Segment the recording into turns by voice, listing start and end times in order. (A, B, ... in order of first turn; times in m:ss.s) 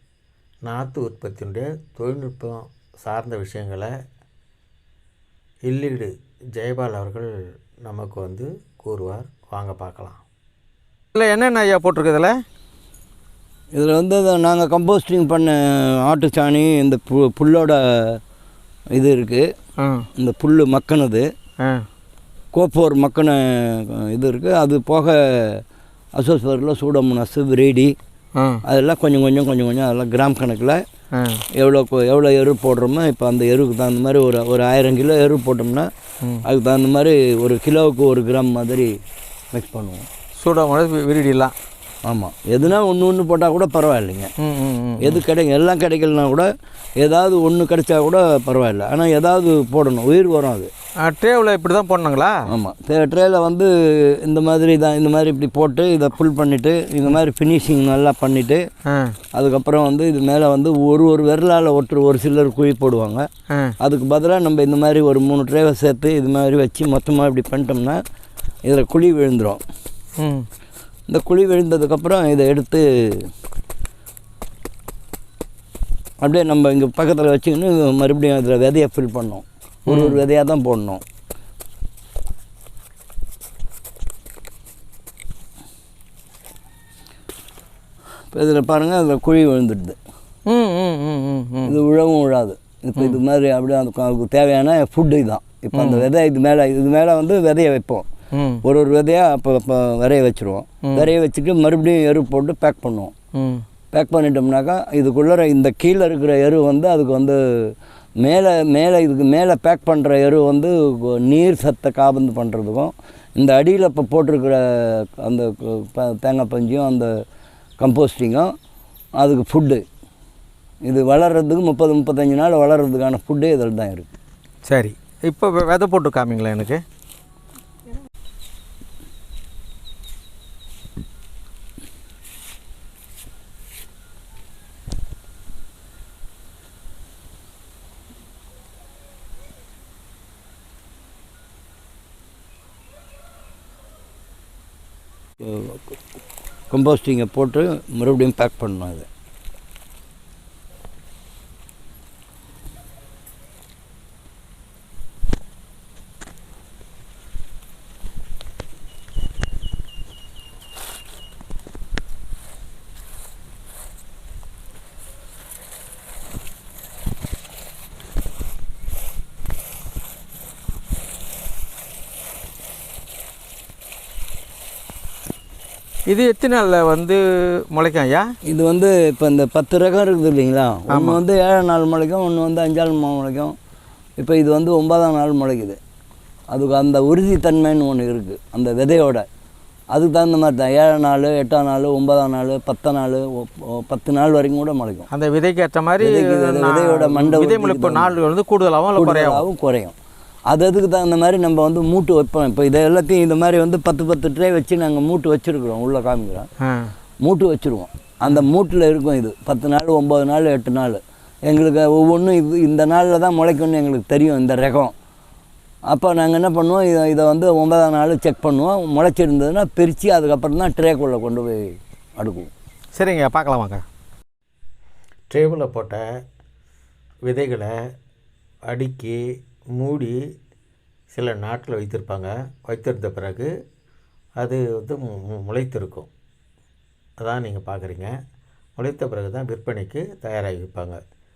0:00.6-0:03.9 A
0:05.7-0:07.3 A
0:07.8-0:10.2 A
0:11.2-0:12.4 B
0:13.8-0:18.2 C
0:18.9-0:19.5 C
0:19.8-0:20.1 B
0:20.2-0:21.3 C
0:21.6-0:21.8 B
0:22.5-0:25.6 C
0:26.2-0:28.0 C
0:28.4-0:28.6 B
0:28.6-0:30.8 C
0:31.1-0:31.4 B
0:31.5-0:35.9 C
0:36.4-0:38.9 C
0:39.5-0:40.1 C
0:40.4-0:41.5 B
0:42.1-0:44.3 C
0:44.4-0:45.2 B
0:45.0-0:50.7 C
0:51.0-0:52.5 B
0:52.5-0:58.6 C
0:58.9-0:59.2 B
0:59.4-1:03.3 C
1:03.8-1:08.0 C
1:08.6-1:09.6 C
1:10.2-1:10.5 B
1:11.1-1:13.3 C
1:16.2-1:21.0 C
1:19.9-1:20.2 B
1:28.3-1:30.0 C
1:30.5-1:31.8 B
1:31.6-1:38.1 C
1:35.8-1:36.1 B
1:38.3-1:38.6 B
1:38.6-1:43.1 C
1:43.4-1:43.6 B
1:43.9-1:57.1 C
1:57.8-1:58.5 C
1:59.2-1:59.8 C
2:00.9-2:04.1 C
2:04.7-2:06.8 B
2:25.4-2:26.0 C
2:26.7-2:29.1 C
2:56.1-2:58.3 B
2:58.5-3:03.6 C
3:00.9-3:01.2 B
3:04.2-3:05.8 C
3:06.5-3:09.3 C
3:09.9-3:15.1 C
3:15.1-3:19.4 B
3:16.0-3:18.2 C
3:19.0-3:20.0 C
3:20.5-3:26.5 C
3:26.6-3:26.9 B
3:27.2-3:34.9 C
3:35.9-3:42.5 C
3:43.0-3:43.8 B
3:45.3-3:46.0 A
3:47.3-3:47.7 A
3:48.7-3:49.2 A
3:49.8-3:50.2 A
3:51.1-3:53.5 A
3:54.4-3:56.1 A
3:57.2-3:58.1 A
3:58.8-4:01.0 A